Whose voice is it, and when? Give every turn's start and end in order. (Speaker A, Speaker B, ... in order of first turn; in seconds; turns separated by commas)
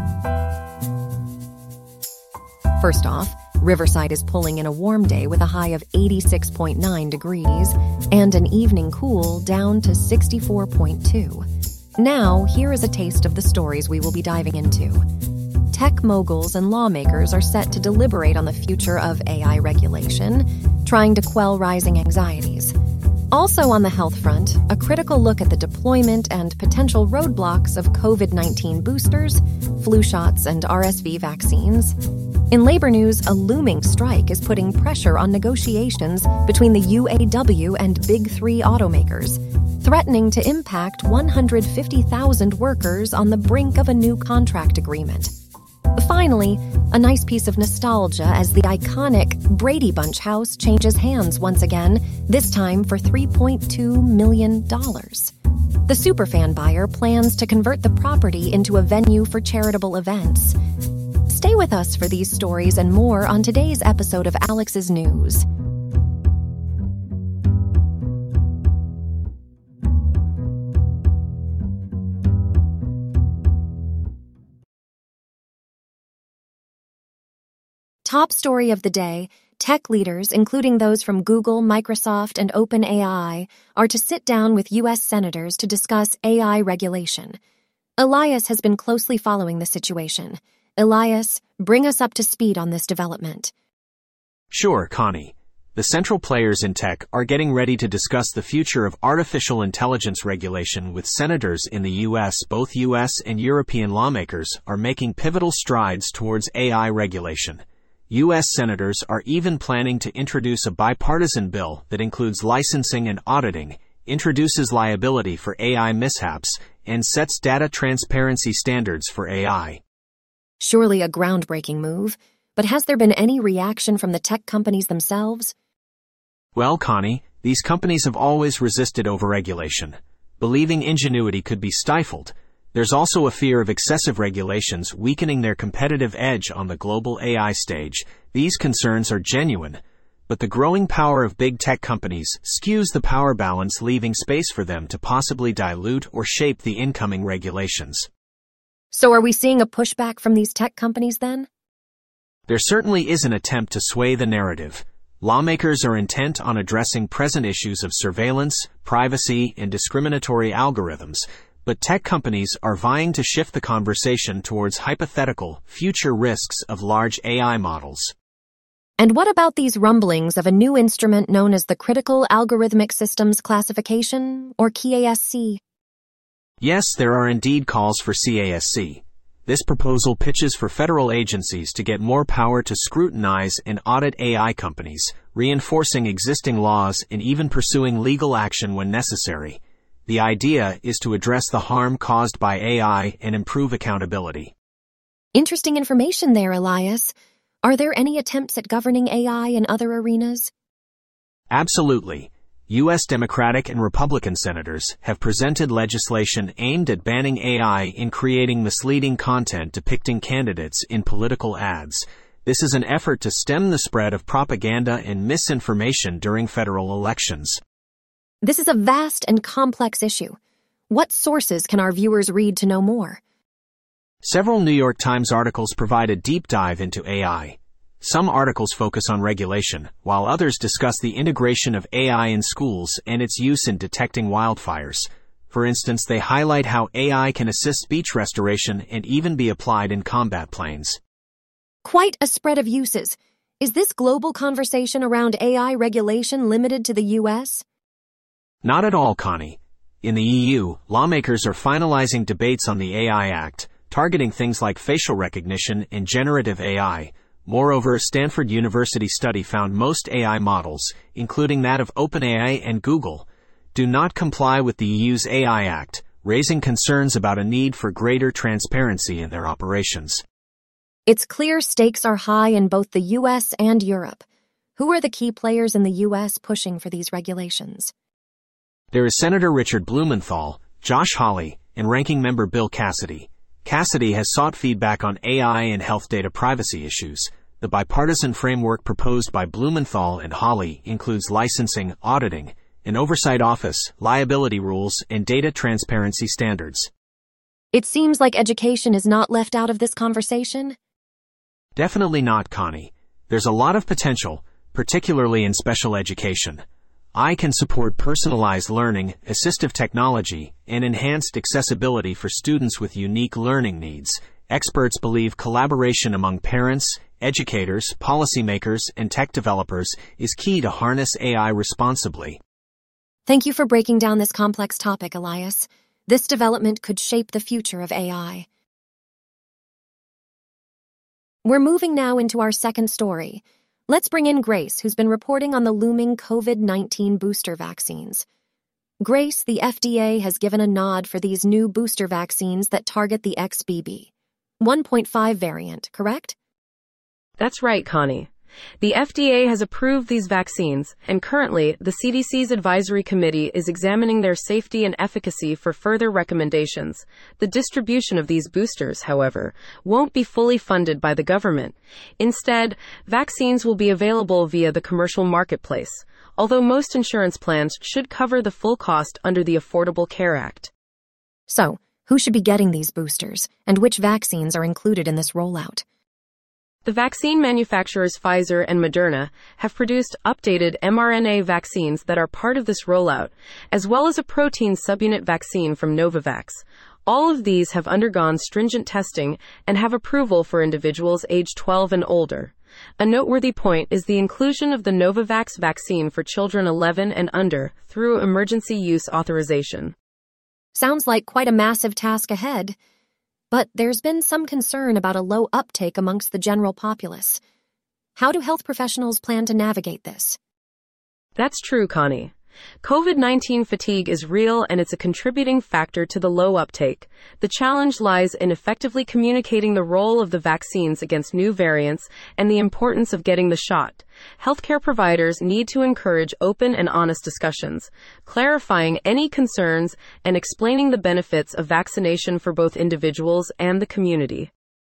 Speaker A: 2.8-11.5, Speaker A: 12.0-15.1, Speaker A: 15.7-22.7, Speaker A: 23.3-32.0, Speaker A: 32.5-45.3, Speaker A: 46.0-55.3, Speaker A: 55.9-60.6, Speaker A: 61.3-65.5, Speaker A: 78.0-87.4, Speaker A: 88.0-93.5, Speaker B: 94.5-119.8, Speaker A: 120.6-125.5, Speaker B: 126.5-148.1, Speaker A: 148.9-151.5, Speaker B: 152.5-168.1, Speaker A: 169.0-175.6, Speaker B: 176.6-194.5, Speaker A: 195.3-197.1, Speaker A: 197.6-200.5, Speaker B: 201.5-217.6, Speaker A: 218.4-220.4, Speaker A: 220.9-223.2, Speaker B: 224.2-241.0, Speaker A: 241.8-247.6, Speaker B: 248.6-270.2, Speaker A: 271.1-274.2, Speaker A: 274.8-277.9, Speaker B: 278.9-296.9, Speaker A: 297.7-300.8, Speaker B: 301.8-306.6, Speaker B: 307.1-322.4, Speaker A: 323.3-328.5, Speaker A: 331.4-338.2, Speaker A: 339.0-346.4, Speaker C: 347.4-348.3, Speaker C: 348.8-370.7, Speaker A: 371.5-375.8, Speaker C: 376.9-399.9, Speaker A: 400.7-402.8, Speaker A: 403.5-407.4, Speaker A: 408.2-410.4, Speaker C: 411.4-434.5